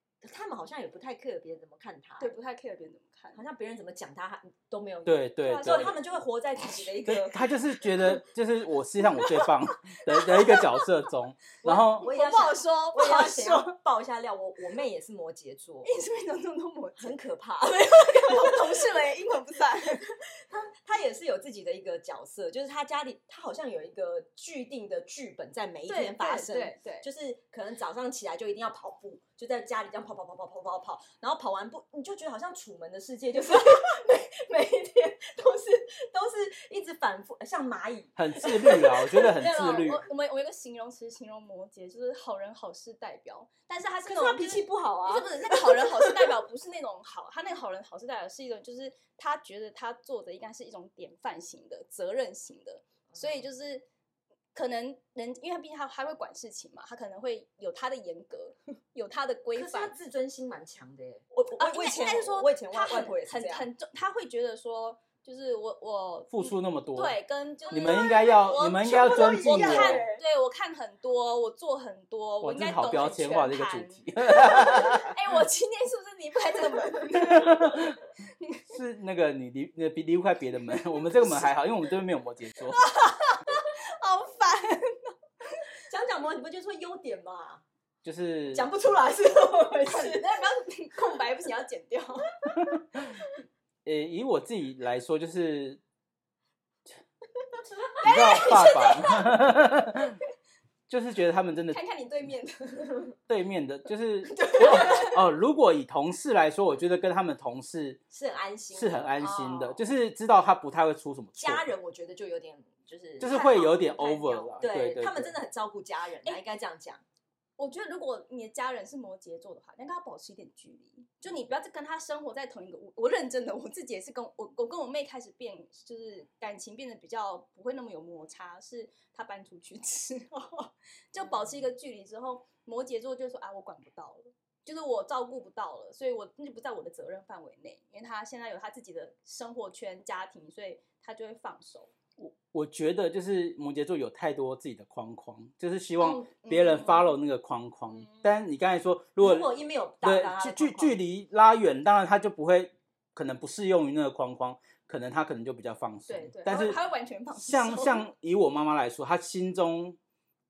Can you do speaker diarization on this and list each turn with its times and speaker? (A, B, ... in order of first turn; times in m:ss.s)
0:00.2-0:02.3 A
0:02.2-0:03.4 B
0:03.3-0:07.4 A
0:05.0-0:06.0 C
0:05.4-0:06.0 B
0:07.1-0:12.1 C
0:10.1-0:10.9 B
0:11.6-0:15.9 A
0:11.7-0:13.8 B
0:15.8-0:20.1 B
0:17.0-0:18.9 A
0:20.3-0:38.8 A
0:25.9-0:27.1 B
0:38.2-0:40.0 C
0:38.9-0:53.8 B
0:44.1-0:46.3 A
0:54.6-0:59.9 B
0:59.6-1:03.7 A
1:01.6-1:17.9 B
1:06.3-1:07.2 C
1:07.7-1:10.0 C
1:08.8-1:10.2 A
1:12.4-1:15.2 C
1:17.1-1:18.0 C
1:18.7-1:22.8 C
1:21.1-1:21.5 B
1:22.7-1:25.7 B
1:25.9-1:27.6 A
1:28.0-1:28.7 C
1:28.5-1:30.4 A
1:29.9-1:32.5 B
1:32.6-1:33.1 C
1:33.8-1:35.8 C
1:38.0-1:39.4 B
1:38.0-1:40.2 C
1:40.9-1:41.8 C
1:41.7-1:43.2 B
1:43.3-1:48.0 C
1:44.4-1:45.1 B
1:48.1-1:49.7 A
1:48.7-1:51.7 C
1:49.2-1:49.7 B
1:51.4-1:57.0 A
1:53.2-1:55.4 C
1:57.6-2:21.9 B
2:22.2-2:36.8 C
2:26.0-2:27.2 B
2:27.9-2:28.3 B
2:29.2-2:31.0 A
2:36.1-2:38.0 B
2:37.4-2:40.0 C